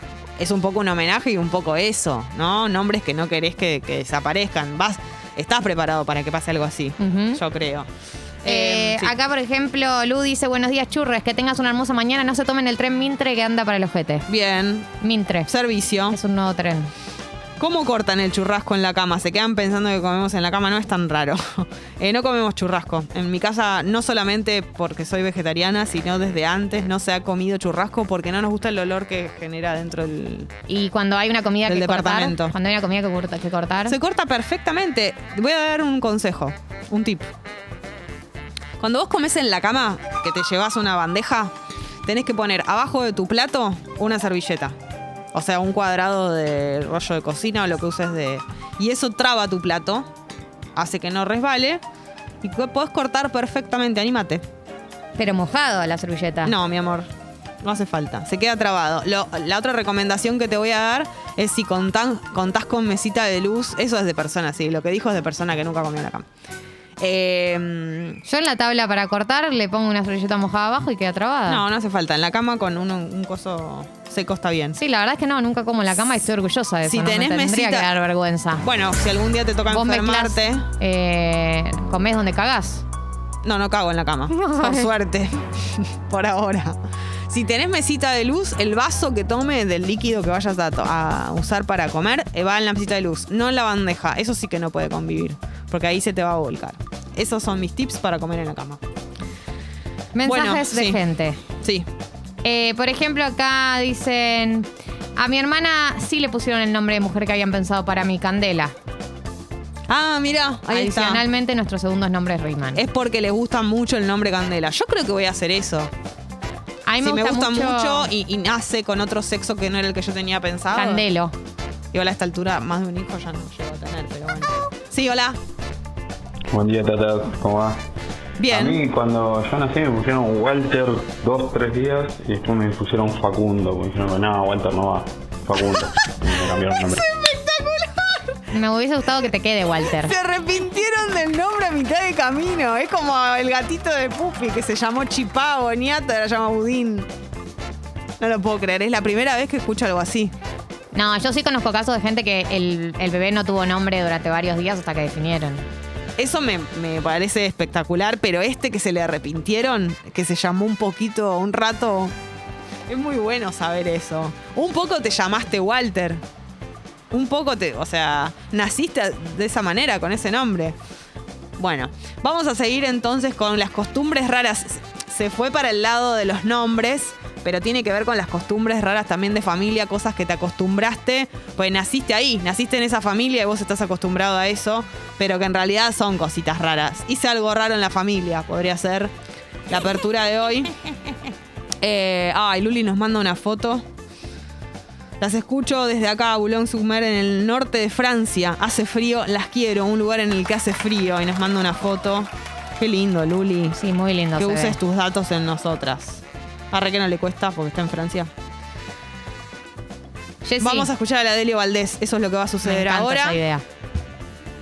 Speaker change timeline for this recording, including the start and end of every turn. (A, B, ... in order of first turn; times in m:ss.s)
0:00.4-0:07.9 A
0:07.0-0:07.4 B
0:08.4-0:09.2 A
0:08.5-0:14.2 B
0:14.3-0:14.9 A
0:15.0-0:15.5 B
0:15.5-0:16.2 A
0:16.1-0:16.9 B
0:17.6-0:30.5 A
0:30.7-0:34.0 B
0:31.6-0:32.6 A
0:33.9-0:37.3 A
0:38.8-0:41.5 A
0:42.1-0:44.8 A
0:45.3-0:50.1 A
0:50.8-0:51.8 A
0:52.4-0:54.4 A
0:55.2-0:56.5 B
0:56.4-0:57.1 A
0:57.6-1:06.3 A
1:07.0-1:08.2 A
1:08.3-1:11.6 B
1:11.5-1:14.8 A
1:14.8-1:18.6 B
1:16.8-1:17.9 A
1:18.6-1:20.6 A
1:19.7-1:22.8 B
1:23.4-1:26.8 A
1:24.3-1:24.9 B
1:27.3-1:38.8 A
1:40.2-1:41.4 B
1:40.3-1:41.0 A
1:41.6-1:41.9 A
1:42.4-1:48.7 B
1:49.9-1:51.2 A
1:50.7-1:52.8 B
1:52.8-1:55.9 A
1:56.9-1:58.1 B
1:57.0-2:01.0 A
2:00.7-2:01.4 B
2:01.9-2:05.4 A
2:06.5-2:07.8 C
2:08.4-2:08.8 A
2:08.5-2:17.0 C
2:16.8-2:18.3 A
2:18.5-2:20.1 B
2:19.9-2:27.1 A
2:28.2-2:30.3 A
2:30.9-2:35.6 B
2:36.2-2:42.2 A
2:42.9-2:46.2 A
2:47.1-2:50.8 A
2:51.6-3:09.1 A
3:09.7-3:10.7 A
3:11.8-3:13.9 A
3:15.2-3:23.8 A
3:23.8-3:24.8 B
3:24.4-3:28.3 A
3:30.4-3:30.9 B
3:30.6-3:33.4 A
3:32.6-3:33.6 B